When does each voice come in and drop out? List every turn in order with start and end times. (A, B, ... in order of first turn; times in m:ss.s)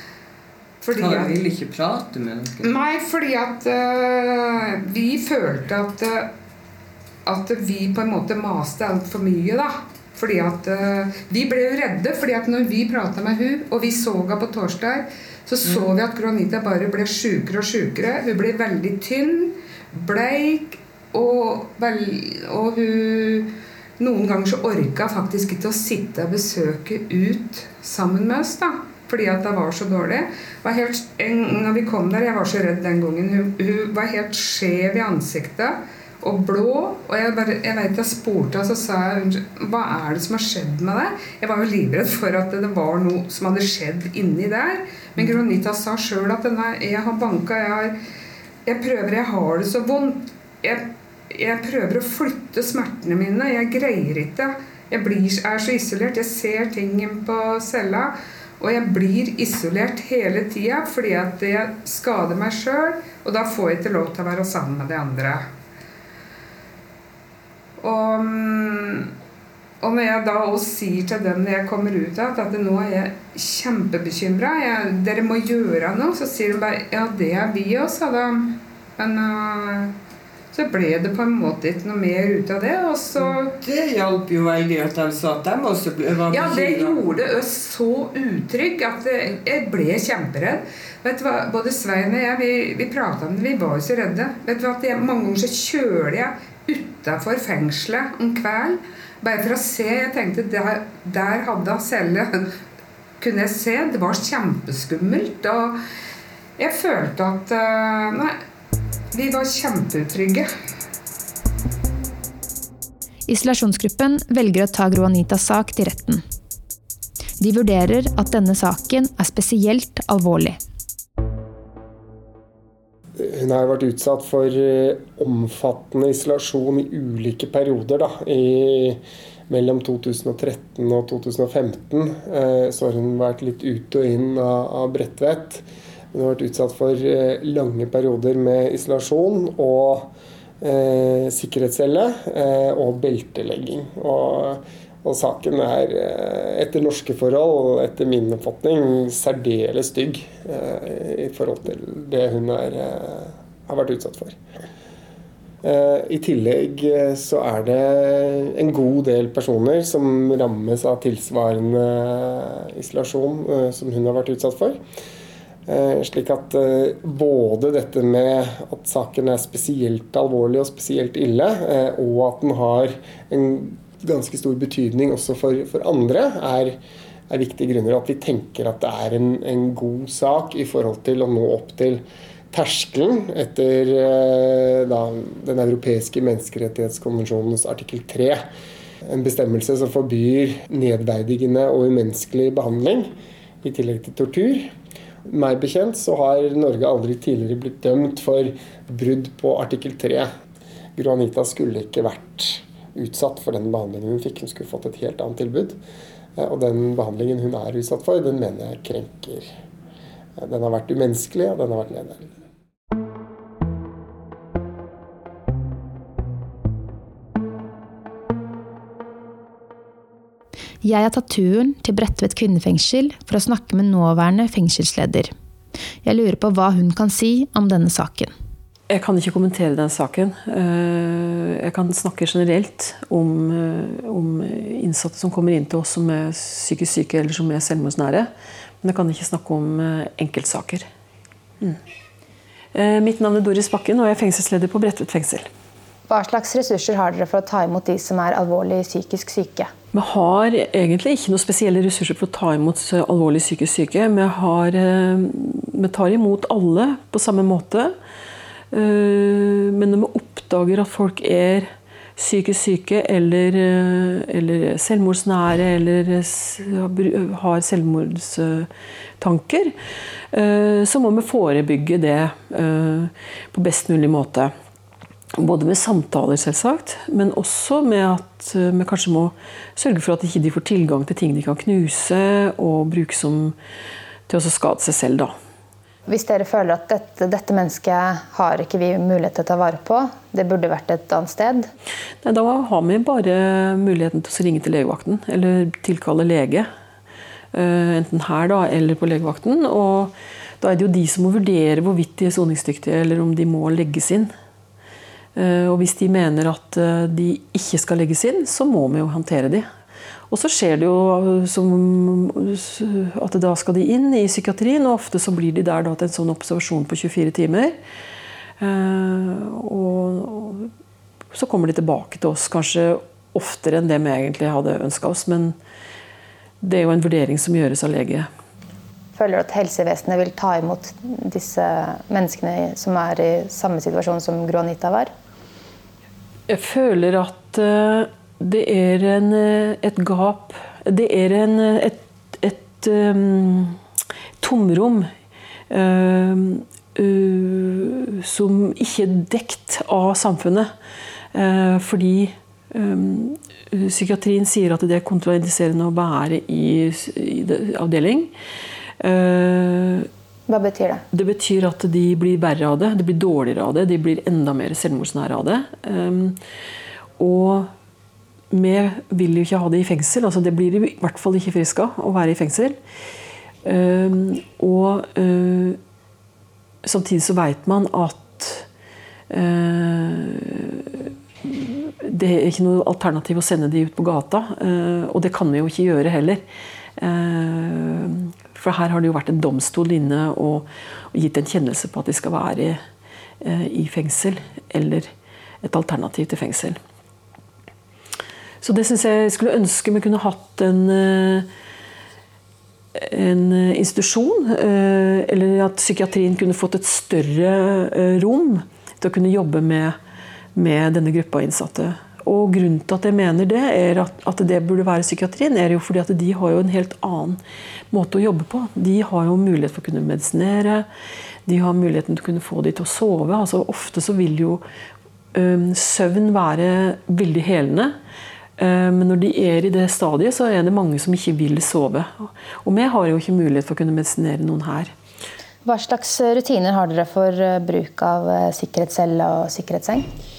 0:00.8-0:01.4 A
0:00.9-0:02.7 B
0:02.6-0:06.3 A
0:07.2-0:47.9 A
0:48.6-1:05.4 A
1:07.8-1:09.1 A
1:09.8-1:19.9 A
1:20.5-1:23.5 A
1:23.2-1:27.0 B
1:26.3-1:42.5 A
1:43.2-1:45.8 A
1:46.6-1:48.4 A
1:49.1-1:50.5 A
1:53.3-1:56.2 C
1:57.4-2:00.6 C
2:03.2-2:34.4 D
2:35.6-2:44.8 D
2:45.7-2:56.8 D
2:57.3-3:08.4 D
3:09.0-3:13.1 D
3:13.6-3:14.7 D
3:15.2-3:20.3 D
3:21.0-3:25.8 D
3:26.4-3:29.5 D
3:30.4-3:32.3 D
3:40.8-3:45.3 C
3:46.0-3:48.3 C
3:48.9-3:58.3 E
3:58.8-4:00.9 E
4:02.7-4:05.5 E
4:06.1-4:09.7 C
4:09.9-4:17.9 E
4:18.7-4:29.7 E
4:30.3-4:34.5 E
4:35.4-4:43.5 E
4:44.3-4:45.3 E
4:46.1-4:51.7 C
4:52.2-4:56.7 E
4:57.5-5:04.3 E
5:05.3-5:09.7 E
5:10.3-5:17.8 E
5:18.6-5:20.7 E
5:21.3-5:25.6 E
5:26.6-5:28.3 E
5:29.2-5:35.1 C
5:36.5-5:43.8 E
5:44.4-5:45.1 E
5:45.7-5:50.7 E
5:51.3-5:58.3 E
5:59.0-6:00.1 E
6:00.5-6:01.0 C
6:01.1-6:06.4 E
6:07.2-6:07.7 E
6:08.5-6:12.8 E
6:13.6-6:15.8 E
6:16.8-6:18.6 E
6:19.3-6:26.4 E
6:27.0-6:32.8 E
6:33.4-6:35.1 E
6:35.6-6:36.8 E
6:38.6-6:41.5 E
6:42.9-6:50.0 E
6:50.5-6:57.4 E
6:57.9-7:00.9 E
7:01.4-7:04.6 E
7:05.3-7:08.0 E
7:08.6-7:14.9 E
7:15.6-7:20.1 C